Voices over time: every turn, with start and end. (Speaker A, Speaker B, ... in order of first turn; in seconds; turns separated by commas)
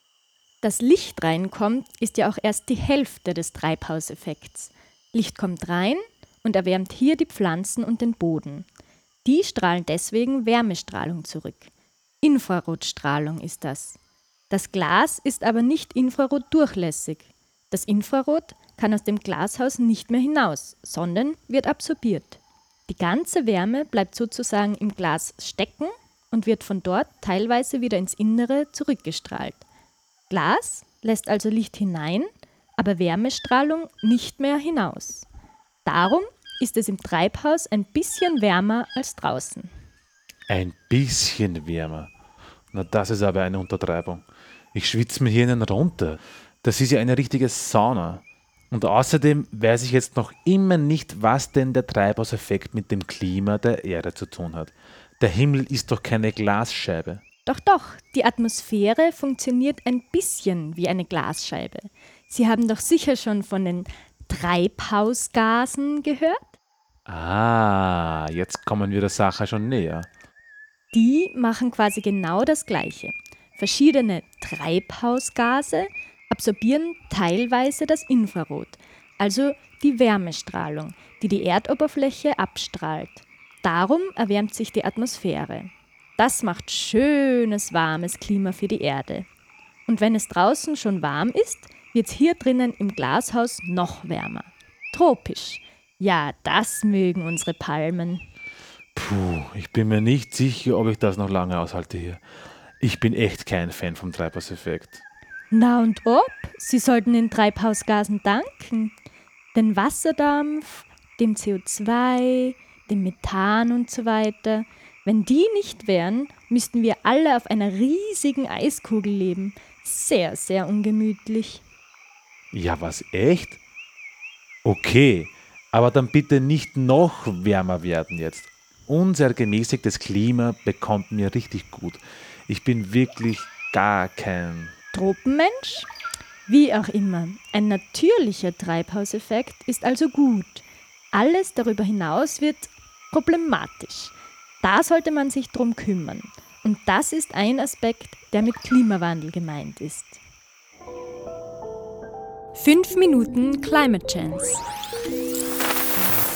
Speaker A: 0.6-8.7, Speaker A: 9.2-11.7, Speaker A: 12.2-14.0, Speaker A: 14.5-29.6, Speaker A: 30.3-35.3, Speaker A: 35.9-39.7, Speaker B: 40.5-42.1, Speaker B: 42.7-57.2, Speaker A: 57.5-66.5, Speaker B: 67.1-70.1, Speaker A: 70.9-89.3, Speaker A: 89.9-98.3, Speaker B: 99.0-102.2, Speaker B: 102.8-105.0, Speaker A: 105.5-108.9, Speaker A: 109.5-121.6, Speaker B: 122.5-123.6, Speaker B: 124.6-134.7, Speaker A: 134.9-135.9, Speaker A: 136.5-150.2, Speaker A: 152.5-154.6